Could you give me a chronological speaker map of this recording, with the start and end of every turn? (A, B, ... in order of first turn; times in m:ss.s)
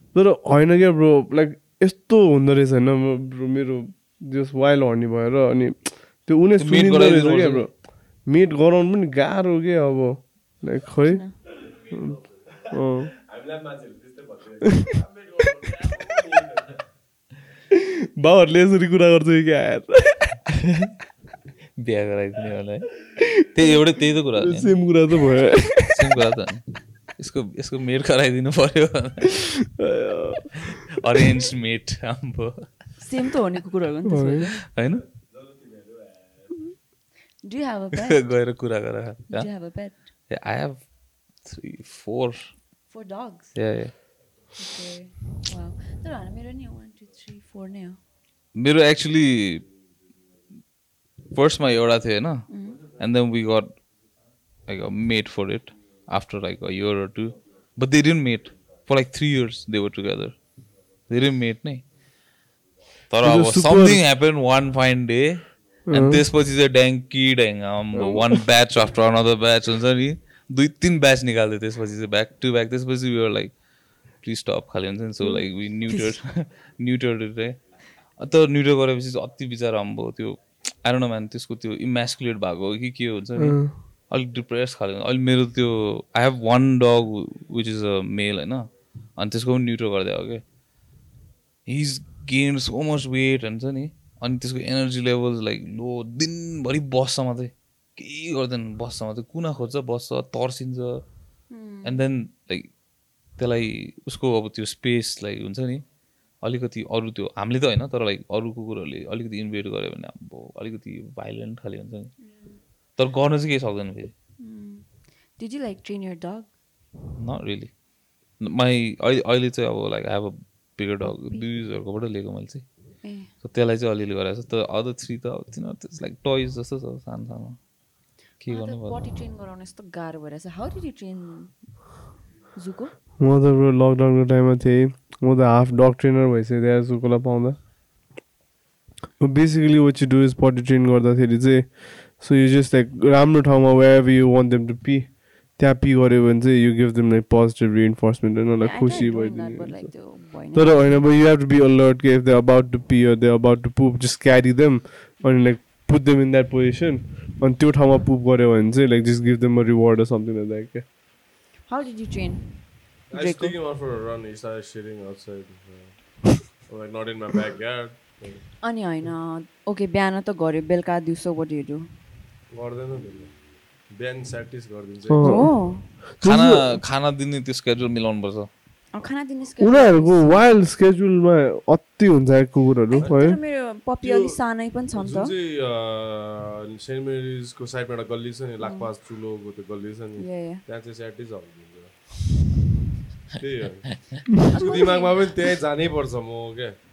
0:00.1-0:11.4 A
0:06.6-0:07.7 B
0:11.1-0:11.4 C
0:11.6-0:16.8 D
0:12.7-0:13.1 A
0:18.2-0:20.5 A
0:21.8-0:24.8 B
0:24.3-0:26.0 A
0:25.9-0:29.6 B
0:29.8-0:30.5 A
0:31.0-0:33.0 B
0:33.0-0:34.6 C
0:34.1-0:34.5 A
0:34.7-0:35.0 B
0:35.2-0:36.2 D
0:37.4-0:38.4 C
0:38.1-0:42.9 B
0:39.3-0:40.1 C
0:42.9-0:43.6 C
0:43.5-0:44.0 B
0:44.5-0:48.0 C
0:48.5-0:49.6 B
0:51.3-0:54.0 B
0:52.5-0:52.8 C
0:54.6-1:01.9 B
1:03.1-1:30.4 B
1:03.2-1:04.0 A
1:05.9-1:06.2 A
1:08.0-1:08.4 A
1:15.2-1:16.2 C
1:23.4-1:23.7 A
1:31.6-1:41.0 B
1:41.5-1:42.0 C
1:41.8-1:45.8 B
1:46.4-1:54.1 B
1:52.2-1:52.6 C
1:54.4-1:56.6 C
1:57.2-2:07.8 B
2:01.0-2:01.7 C
2:03.0-2:03.3 C
2:08.4-2:09.0 B
2:08.4-2:13.0 C
2:13.2-2:17.6 A
2:19.2-2:40.8 A
2:28.6-2:31.1 C
2:41.6-2:43.6 C
2:43.1-2:49.1 D
2:48.6-2:52.0 C
2:52.5-2:55.7 D
2:55.1-2:56.8 A
2:55.2-2:56.0 C
2:56.2-2:58.5 B
2:58.9-3:00.5 C
2:59.6-3:03.4 A
3:02.9-3:05.3 C
3:03.0-3:12.5 D
3:08.6-3:08.9 C
3:10.2-3:10.6 C
3:13.3-3:16.8 D
3:14.5-3:15.4 C